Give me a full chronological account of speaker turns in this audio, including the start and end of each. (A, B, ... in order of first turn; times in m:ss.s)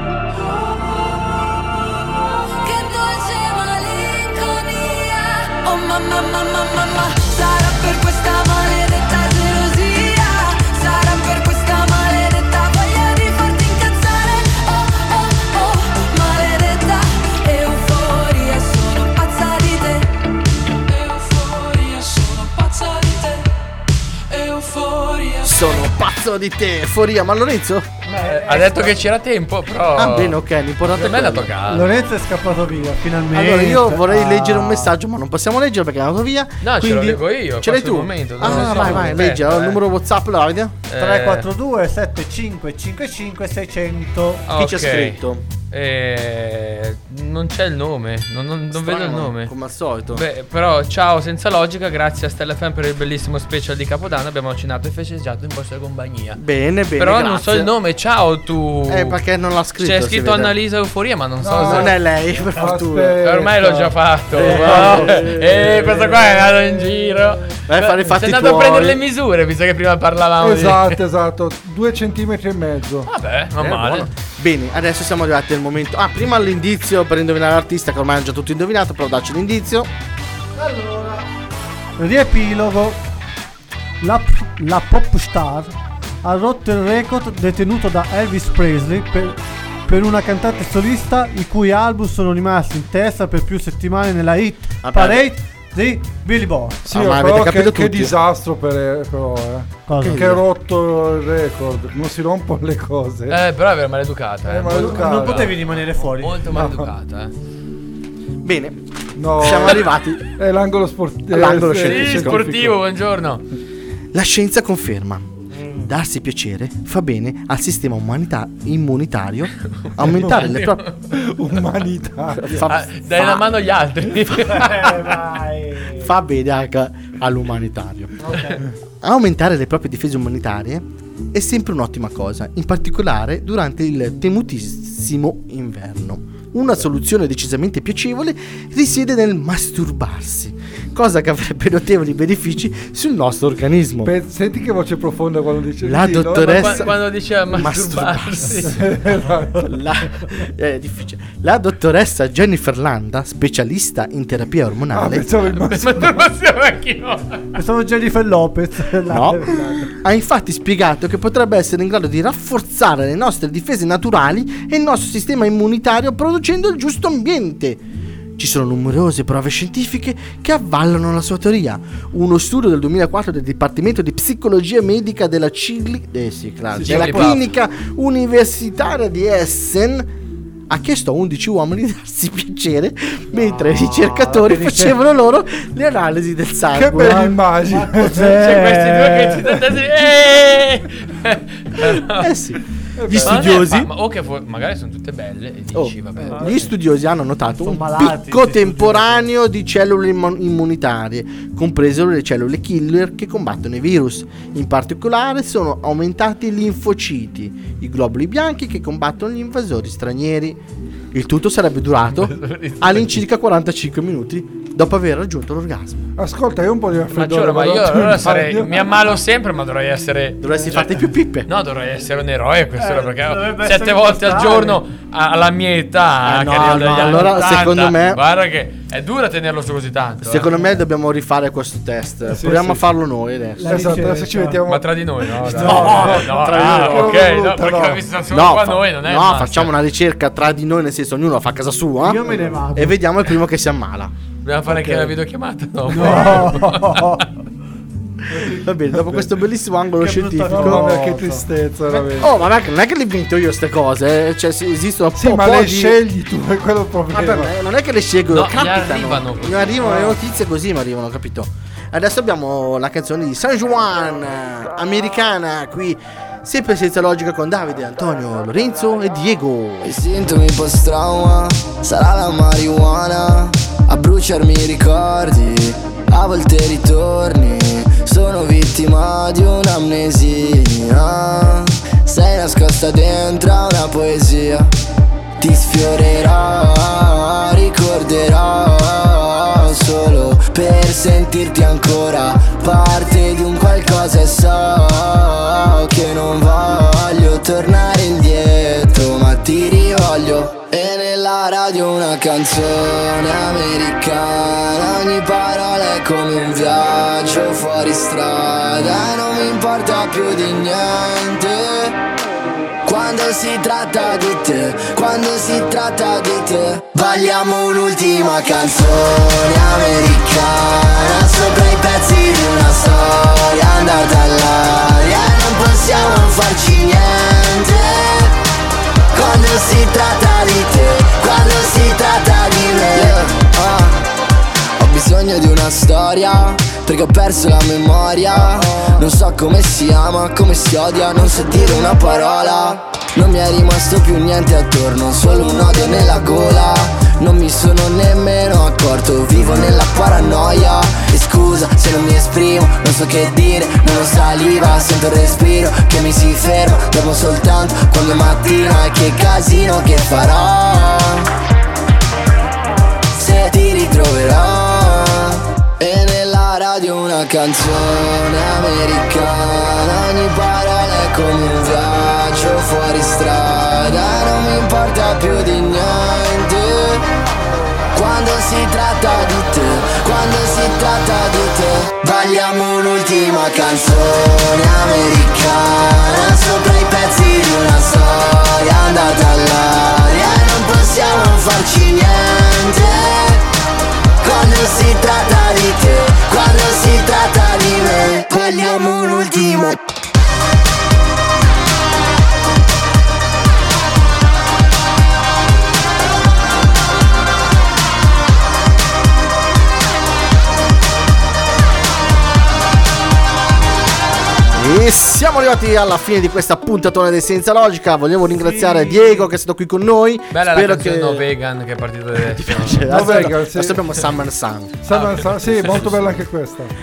0:02.6-0:20.1 A
0:20.9-0:23.4 A
0:24.3-0:25.5 A
0:25.4-0:27.9 B
0:28.1-0:29.0 C
0:28.1-0:31.9 D
0:29.9-0:31.5 B
0:31.7-0:34.9 C
0:33.3-0:40.8 B
0:36.6-0:39.8 D
0:38.5-0:38.9 C
0:40.9-0:41.5 D
0:40.9-0:44.4 C
0:44.5-0:49.5 D
0:44.5-0:45.4 B
0:48.7-0:50.2 B
0:50.1-0:56.4 D
0:56.3-0:57.7 B
0:57.0-0:59.2 D
0:58.9-1:00.5 B
0:59.8-1:01.9 D
1:01.4-1:01.9 E
1:01.6-1:03.2 B
1:02.5-1:05.3 E
1:03.2-1:11.0 D
1:04.3-1:06.0 B
1:07.7-1:09.0 B
1:10.4-1:13.1 E
1:13.1-1:14.1 D
1:13.6-1:19.9 B
1:20.6-1:21.2 C
1:22.0-1:23.0 C
1:24.0-1:36.8 C
1:34.8-1:35.3 B
1:36.8-1:43.4 E
1:36.9-1:38.2 B
1:39.9-1:40.3 C
1:40.0-1:40.4 B
1:43.3-1:47.3 D
1:44.4-1:45.5 E
1:44.7-1:46.4 C
1:46.5-1:46.9 E
1:48.4-1:48.8 B
1:49.2-1:52.8 E
1:49.4-1:50.2 B
1:51.3-1:52.5 B
1:51.7-1:53.4 D
1:54.1-1:55.3 B
1:55.6-1:55.9 C
1:55.8-2:00.8 B
1:59.8-2:01.0 D
2:01.1-2:02.7 E
2:02.3-2:03.5 B
2:02.7-2:05.1 D
2:04.4-2:06.1 C
2:06.0-2:08.2 B
2:08.2-2:08.6 C
2:09.0-2:24.1 B
2:24.0-2:26.9 E
2:25.8-2:26.9 B
2:26.3-2:28.8 D
2:27.5-2:28.7 B
2:28.6-2:29.8 E
2:29.6-2:35.2 B
2:34.9-2:36.3 E
2:35.6-2:37.4 D
2:37.5-2:39.8 C
2:39.1-2:47.8 B
2:48.4-3:00.1 B
2:56.8-2:57.4 D
2:56.8-2:57.3 E
3:00.7-3:07.4 B
3:03.3-3:05.0 C
3:06.7-3:08.4 E
3:07.0-3:09.5 C
3:08.2-3:12.4 D
3:12.1-3:13.9 B
3:13.0-3:13.5 E
3:13.2-3:16.5 D
3:15.7-3:30.6 B
3:17.6-3:19.3 C
3:31.1-3:36.0 B
3:32.1-3:33.2 D
3:36.2-3:39.1 E
3:37.1-3:40.7 D
3:40.4-3:41.5 B
3:41.4-3:50.5 D
3:42.8-3:44.8 C
3:46.2-3:48.2 B
3:50.2-3:54.0 B
3:52.3-3:52.8 E
3:53.6-3:54.6 C
3:53.6-3:58.1 E
3:54.7-3:59.8 D
3:55.4-3:56.2 C
3:55.5-3:57.2 B
3:58.3-4:04.1 B
4:02.0-4:03.0 C
4:04.4-4:07.2 D
4:04.7-4:05.1 B
4:05.9-4:07.2 C
4:08.3-4:09.3 E
4:08.4-4:10.9 B
4:10.0-4:12.1 C
4:10.5-4:12.4 E
4:12.2-4:16.0 B
4:15.2-4:17.5 E
4:17.1-4:29.9 B
4:18.3-4:19.9 D
4:29.9-4:44.7 F
4:45.4-5:11.9 F
5:12.9-5:28.3 F
5:29.1-5:33.1 F
5:32.9-5:33.2 B
5:34.8-6:01.2 F
5:38.3-5:39.1 B
6:03.2-6:05.2 F
6:05.8-6:17.0 F
6:18.0-6:33.4 F
6:34.2-6:39.7 F
6:54.5-7:01.2 B
6:58.3-6:59.3 C
7:00.3-7:02.9 D
7:02.2-7:04.8 B
7:02.9-7:03.8 E
7:04.8-7:06.7 E
7:04.9-7:06.0 D